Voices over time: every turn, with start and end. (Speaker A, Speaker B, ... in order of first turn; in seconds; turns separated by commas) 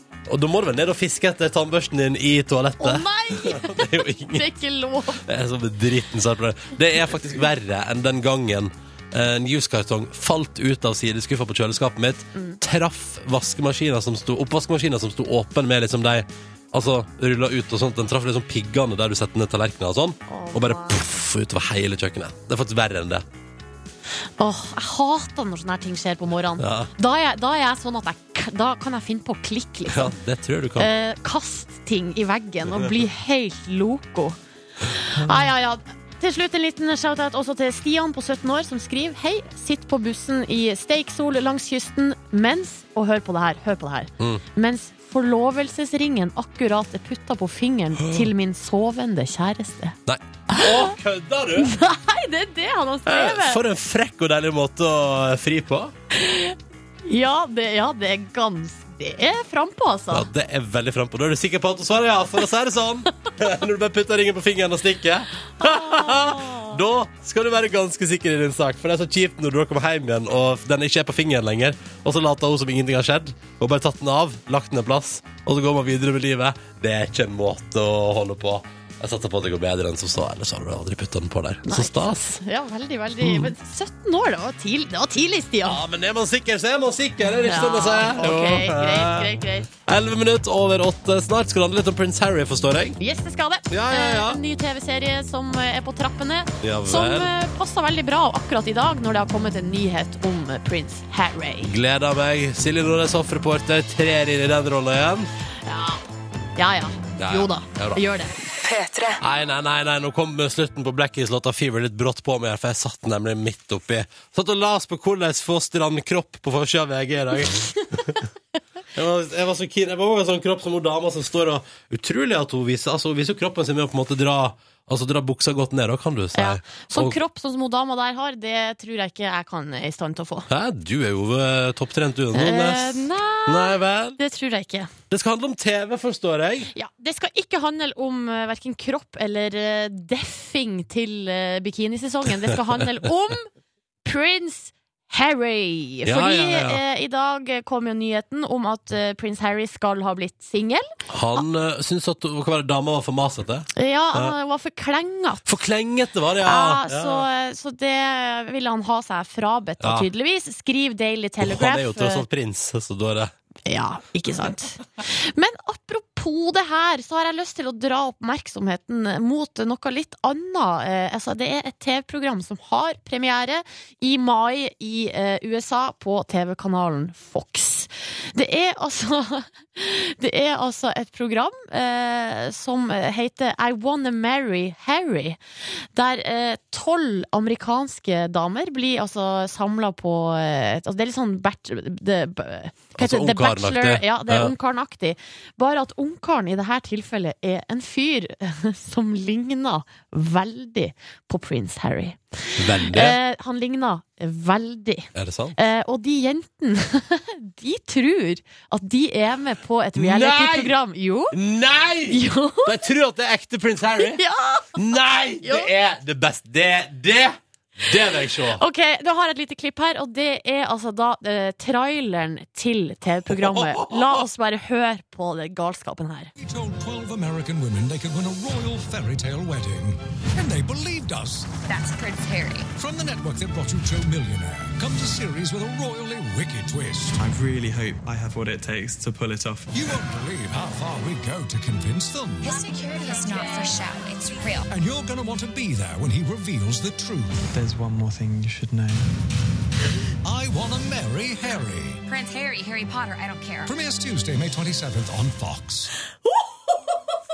Speaker A: 0.3-4.5, Speaker B: 2.8-5.2, Speaker A: 5.2-23.2, Speaker B: 12.3-12.6, Speaker B: 20.3-21.0, Speaker B: 24.4-30.1, Speaker A: 26.6-26.9, Speaker A: 29.9-30.9, Speaker B: 30.8-50.0, Speaker A: 35.2-35.5, Speaker A: 48.0-48.3, Speaker A: 50.1-51.7, Speaker B: 50.5-50.9, Speaker B: 51.6-53.6, Speaker A: 53.1-55.9, Speaker B: 56.1-60.3, Speaker A: 60.1-82.4, Speaker B: 65.6-66.8, Speaker B: 81.7-85.8, Speaker A: 83.2-83.5, Speaker A: 85.7-93.0, Speaker B: 87.5-89.7, Speaker B: 93.0-101.7, Speaker A: 93.7-94.4, Speaker A: 96.6-97.3, Speaker A: 101.6-105.3, Speaker B: 105.7-106.0, Speaker B: 106.6-108.3, Speaker A: 107.2-108.0, Speaker C: 108.6-109.2, Speaker A: 109.2-118.2, Speaker A: 118.9-127.2, Speaker B: 126.3-130.5, Speaker A: 130.5-134.2, Speaker B: 132.3-134.9, Speaker A: 135.1-136.7, Speaker B: 136.7-143.5, Speaker B: 144.0-151.4, Speaker A: 146.1-146.8, Speaker A: 151.1-154.3, Speaker B: 153.8-155.6, Speaker A: 155.4-157.3, Speaker B: 156.4-162.2, Speaker A: 159.8-160.1, Speaker A: 161.4-163.3, Speaker B: 163.7-185.4, Speaker B: 185.9-211.4, Speaker A: 193.0-194.5, Speaker A: 202.6-203.2, Speaker A: 205.2-205.6, Speaker A: 209.9-210.8, Speaker A: 211.3-214.2, Speaker B: 212.1-212.8, Speaker B: 214.0-214.8, Speaker A: 214.8-218.6, Speaker B: 215.4-215.7, Speaker B: 218.5-226.3, Speaker A: 223.3-224.2, Speaker D: 226.4-231.5, Speaker C: 231.7-232.7, Speaker D: 232.8-237.2, Speaker E: 237.2-239.6, Speaker D: 239.7-242.6, Speaker C: 242.4-244.7, Speaker D: 244.7-247.4, Speaker E: 247.6-248.9, Speaker D: 250.2-252.0, Speaker C: 252.1-253.7, Speaker D: 253.7-255.9, Speaker B: 256.4-256.7